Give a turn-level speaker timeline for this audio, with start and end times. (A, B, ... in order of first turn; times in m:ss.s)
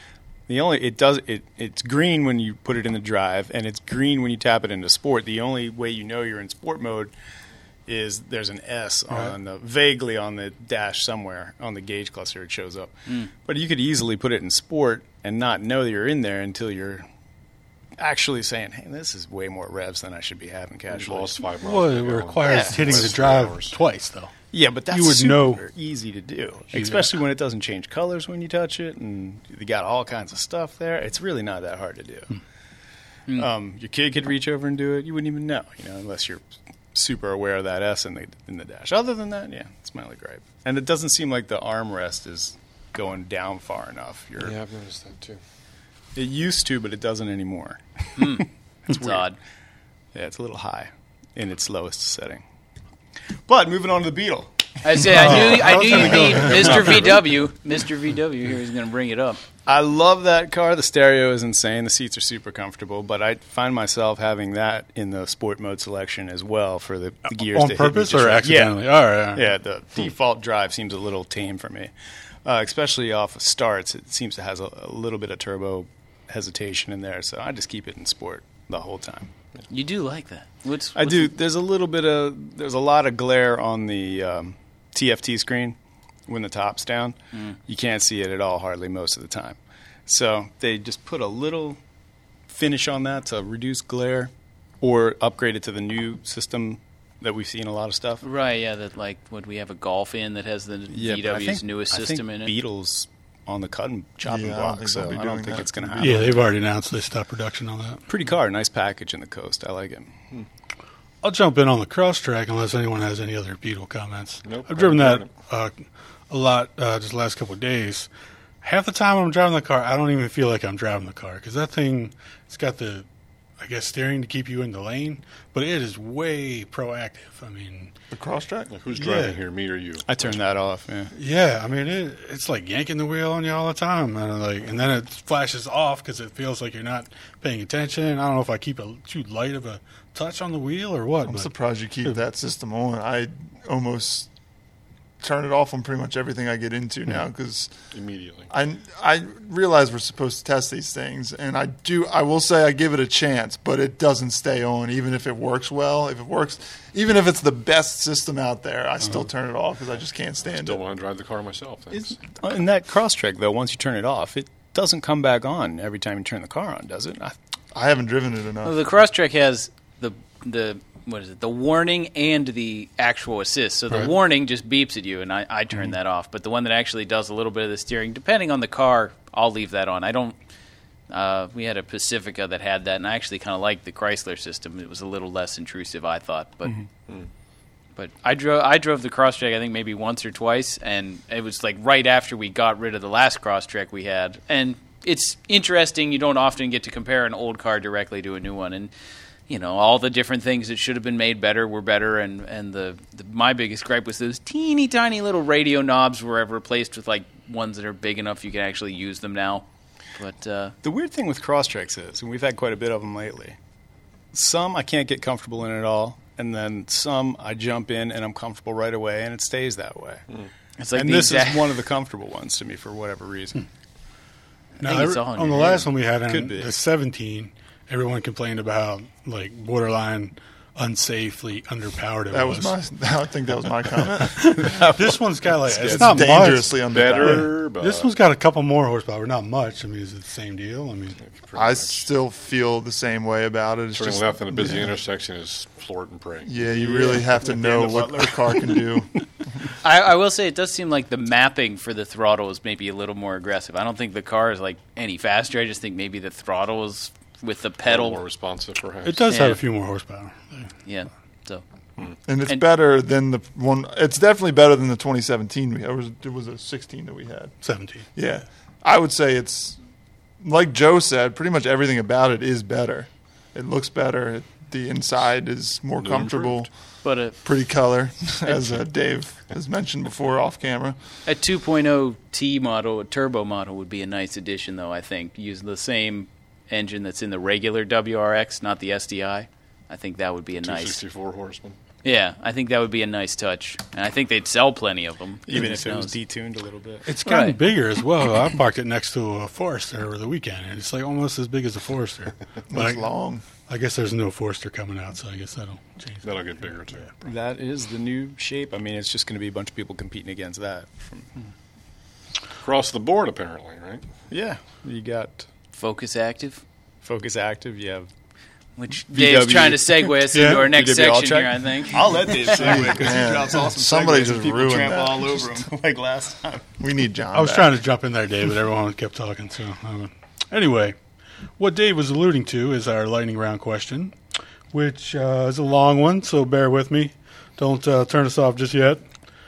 0:00.5-0:07.1 A
0:07.9-0:17.0 A
0:18.0-0:21.5 A
0:20.9-0:23.8 B
0:21.6-0:24.3 C
0:22.5-0:23.0 A
0:24.5-0:32.4 A
0:24.9-0:25.6 C
0:26.7-0:27.0 C
0:33.3-0:44.5 A
0:44.4-0:45.4 B
0:46.1-0:49.2 A
0:48.2-0:49.4 D
0:50.1-0:52.4 A
0:53.5-0:57.1 A
0:54.8-0:59.4 D
0:55.1-0:57.1 C
0:59.6-1:11.9 A
1:07.4-1:09.5 C
1:12.4-1:19.3 A
1:19.7-1:21.3 D
1:20.9-1:31.8 A
1:32.5-1:38.2 A
1:38.2-1:42.5 D
1:40.9-1:46.4 A
1:44.2-1:46.4 E
1:46.0-1:48.0 C
1:48.1-1:50.1 A
1:51.2-1:55.8 C
1:54.4-1:55.3 B
1:56.3-1:58.1 C
1:58.6-2:03.0 C
2:03.6-2:07.9 C
2:08.1-2:08.7 E
2:08.7-2:10.4 B
2:09.0-2:09.3 C
2:10.1-2:11.1 A
2:11.1-2:21.5 C
2:21.2-2:24.3 E
2:25.2-2:27.7 E
2:27.9-2:28.5 B
2:28.5-2:40.8 E
2:40.5-2:42.2 B
2:41.9-2:47.4 A
2:47.7-2:48.7 E
2:48.6-3:00.4 D
3:01.1-3:06.8 D
3:08.0-3:18.9 D
3:19.5-3:30.7 D
3:30.8-3:33.6 A
3:34.3-3:40.2 A
3:40.8-3:41.7 D
3:40.9-3:43.6 A
3:44.8-3:52.7 C
3:44.8-3:45.9 D
3:46.2-3:46.7 A
3:52.3-3:54.8 E
3:54.4-4:01.2 C
3:54.6-3:56.3 A
3:55.8-3:57.5 E
3:56.8-3:58.1 B
4:01.2-4:02.1 B
4:01.5-4:04.9 E
4:03.9-4:06.6 B
4:06.4-4:09.2 E
4:06.6-4:08.8 A
4:09.8-4:18.2 D
4:17.8-4:19.2 B
4:19.0-4:20.7 C
4:19.3-4:19.6 D
4:20.8-4:21.6 D
4:22.2-4:27.6 E
4:27.6-4:28.0 C
4:28.1-4:29.8 E
4:30.4-4:36.7 E
4:36.0-4:36.7 B
4:37.0-4:37.4 D
4:37.4-4:41.0 E
4:41.2-4:51.0 D
4:50.6-4:51.8 B
4:52.0-4:56.2 D
4:55.5-4:57.0 A
4:57.0-5:03.0 C
4:57.2-4:57.6 D
5:02.7-5:03.4 E
5:03.7-5:06.3 C
5:06.2-5:07.1 B
5:07.2-5:11.4 A
5:12.6-5:14.0 B
5:14.3-5:15.4 A
5:15.7-5:16.6 D
5:17.0-5:18.1 A
5:18.8-5:22.8 D
5:19.1-5:26.7 A
5:20.3-5:20.6 C
5:22.5-5:25.6 E
5:26.8-5:27.7 E
5:27.3-5:31.0 C
5:31.6-5:34.1 C
5:34.7-5:39.0 C